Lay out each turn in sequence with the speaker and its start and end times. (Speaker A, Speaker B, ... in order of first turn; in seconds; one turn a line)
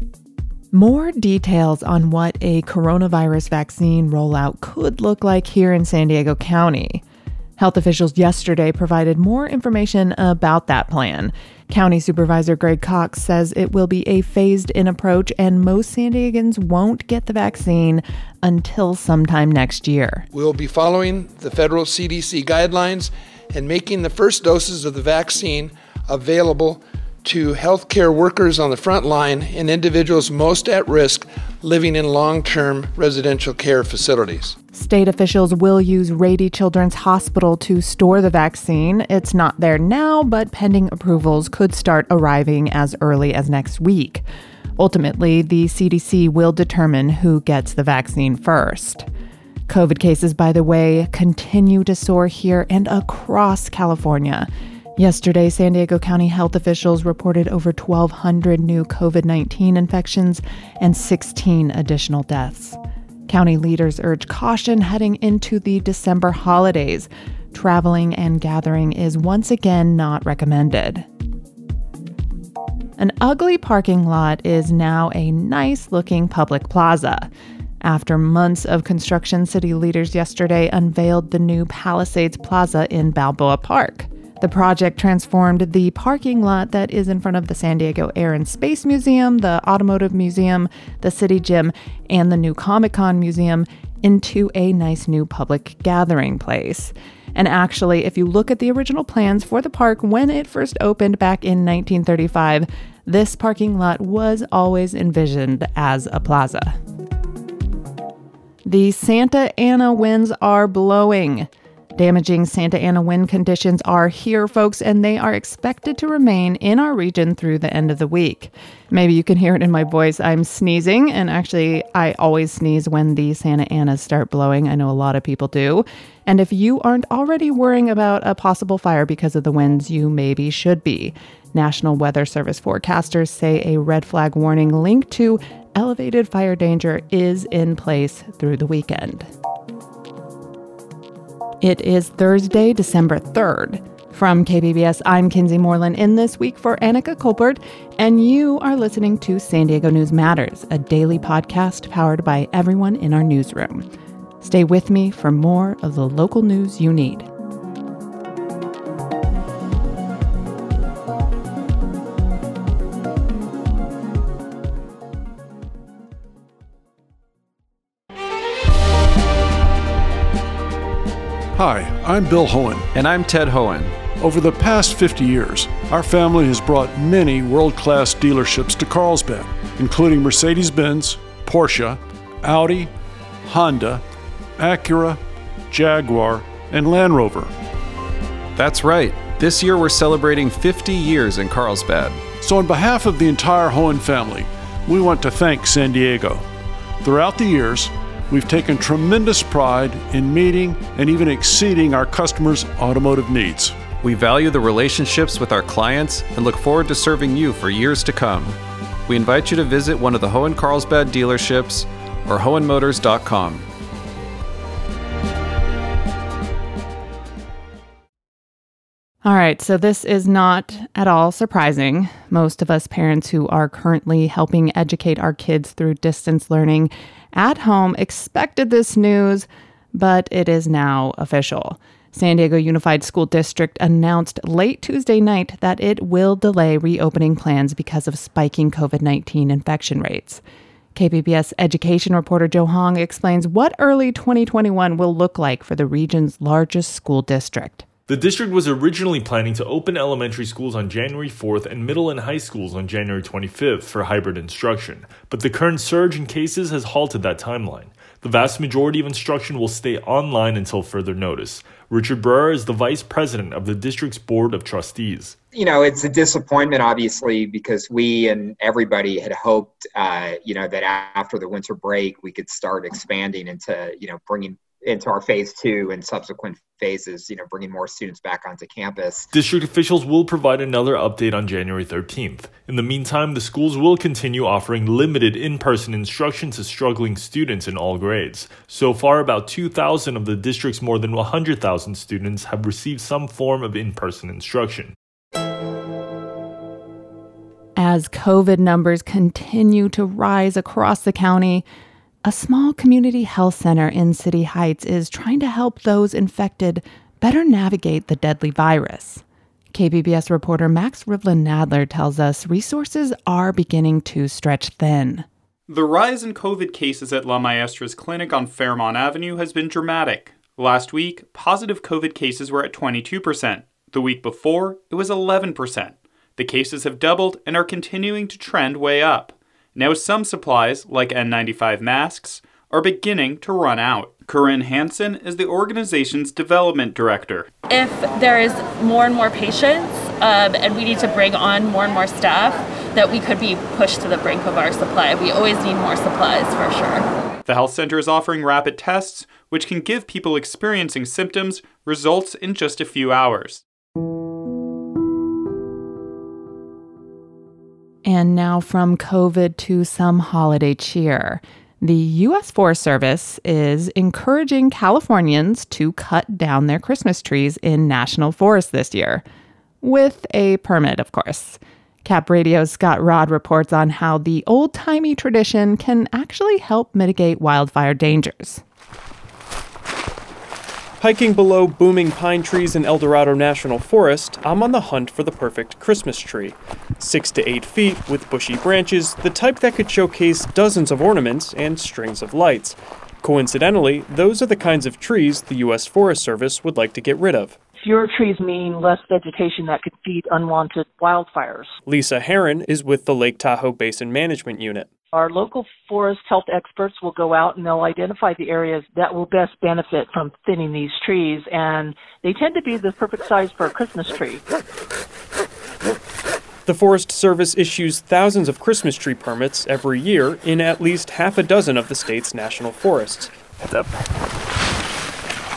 Speaker A: 0.7-7.0
Speaker A: 7.6-20.2
Speaker B: 20.3-34.5
Speaker A: 34.7-44.2
Speaker A: 44.8-49.0
Speaker A: 49.7-71.0
Speaker A: 73.0-77.3
Speaker A: 77.8-106.8
Speaker A: 108.6-139.3
Speaker A: 141.6-153.9
Speaker A: 154.4-157.3
Speaker C: 171.5-172.9
Speaker D: 172.9-174.0
Speaker C: 174.1-182.9
Speaker C: 183.4-184.0
Speaker C: 184.6-187.5
Speaker D: 188.6-192.2
Speaker C: 192.4-196.4
Speaker C: 197.0-203.8
Speaker D: 204.0-213.7
Speaker A: 219.2-240.4
Speaker A: 240.9-247.8
Speaker E: 248.1-265.4
Speaker F: 265.5-279.3
Speaker E: 279.3-294.9
Speaker A: 297.8-301.6
Speaker A: 302.2-315.2
Speaker G: 315.7-337.5
Speaker H: 337.7-347.1
Speaker G: 347.4-353.6
Speaker A: 358.0-369.2
Speaker A: 369.8-378.6
Speaker I: 381.0-397.6
Speaker J: 397.8-401.7
Speaker I: 401.9-404.9
Speaker J: 405.1-414.4
Speaker I: 416.6-423.3